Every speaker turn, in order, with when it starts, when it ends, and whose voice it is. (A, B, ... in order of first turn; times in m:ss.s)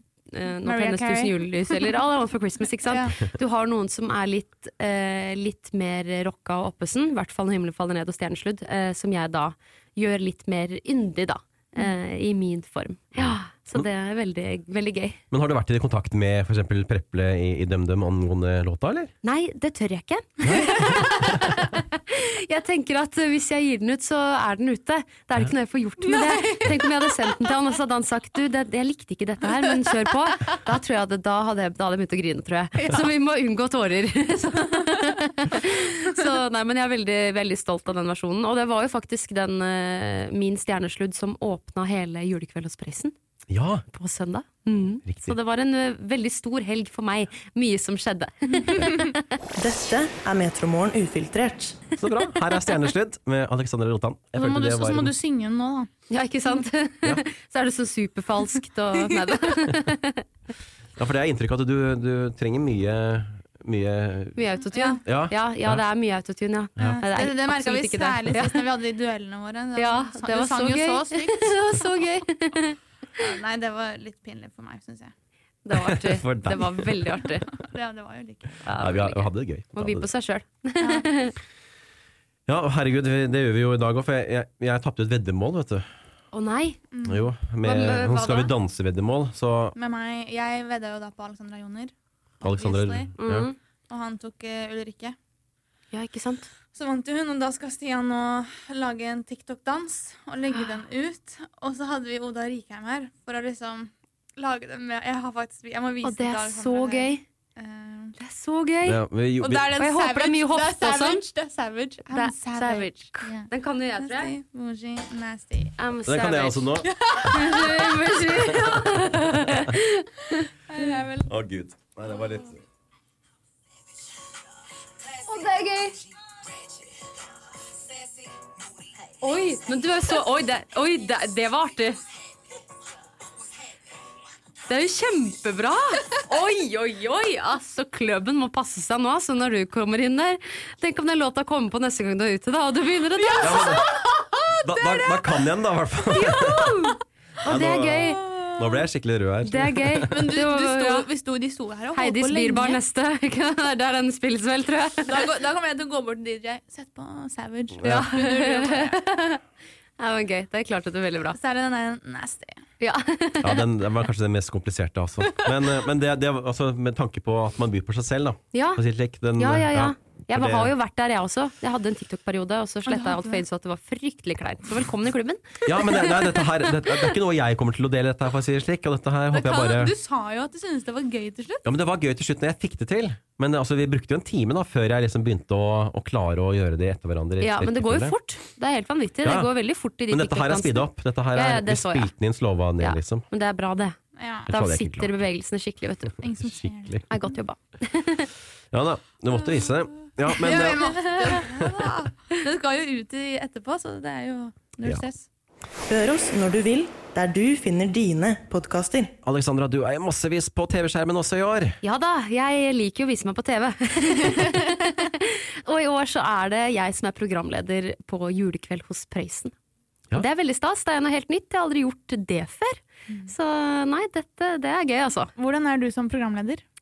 0:00.3-0:15.2 A
0:00.6-0:02.0 B
0:02.8-0:03.2 B
0:15.3-0:19.1 C
0:19.2-0:43.1 A
0:20.4-0:21.4 C
0:26.1-0:26.7 B
0:43.5-0:43.8 C
0:43.9-0:49.2 A
0:45.1-0:45.3 C
0:49.6-0:51.8 D
0:52.0-0:55.1 C
0:54.4-0:55.9 B
0:56.1-1:00.2 A
1:01.0-1:04.4 C
1:04.4-1:08.7 A
1:04.7-1:05.0 B
1:05.0-1:05.8 C
1:06.8-1:11.6 B
1:09.8-1:12.8 A
1:13.2-1:15.1 B
1:15.6-1:17.6 A
1:15.8-1:16.9 C
1:17.5-1:18.6 B
1:18.6-1:21.4 A
1:18.8-1:20.1 C
1:20.8-1:21.1 B
1:22.5-1:25.9 C
1:26.3-1:26.8 A
1:26.9-1:27.3 B
1:27.0-1:29.7 C
1:27.6-1:28.5 A
1:29.8-1:33.1 B
1:32.4-1:33.5 C
1:33.2-1:33.5 A
1:33.9-1:35.2 B
1:35.9-1:36.5 A
1:36.7-1:48.1 B
1:46.0-1:47.2 A
1:48.2-1:49.0 A
1:48.8-1:49.7 C
1:49.4-1:53.5 B
1:49.8-1:51.3 A
1:52.1-1:54.3 A
1:54.0-1:55.7 B
1:55.8-2:00.8 A
1:56.0-1:56.9 C
1:56.8-1:58.0 B
2:00.7-2:01.3 B
2:01.2-2:02.6 C
2:05.1-2:06.0 A
2:09.2-2:12.0 A
2:14.6-2:23.9 A
2:23.2-2:24.5 B
2:23.4-2:23.9 C
2:24.6-2:26.8 C
2:26.1-2:28.3 A
2:27.4-2:30.1 C
2:28.0-2:28.8 B
2:29.4-2:31.1 A
2:30.1-2:32.8 B
2:31.9-2:35.2 A
2:35.1-2:39.0 B
2:37.8-2:39.4 A
2:40.0-2:41.4 A
2:41.3-2:42.6 B
2:42.8-2:43.7 A
2:43.4-2:50.7 C
2:48.5-2:48.8 A
2:49.4-2:56.4 A
2:52.9-2:53.4 B
2:55.6-2:59.9 C
2:59.3-3:01.6 B
3:01.6-3:08.1 C
3:07.4-3:12.1 A
3:09.2-3:09.5 C
3:10.1-3:13.2 C
3:12.8-3:14.0 A
3:14.2-3:14.5 B
3:14.5-3:15.1 C
3:14.5-3:16.2 A
3:16.2-3:17.0 B
3:16.4-3:17.0 C
3:17.1-3:18.3 A
3:18.7-3:22.0 C
3:20.3-3:21.5 A
3:20.3-3:25.3 B
3:25.9-3:29.1 D
3:29.2-3:31.8 C
3:31.8-3:39.5 A
3:40.1-3:45.3 A
3:45.4-3:46.6 B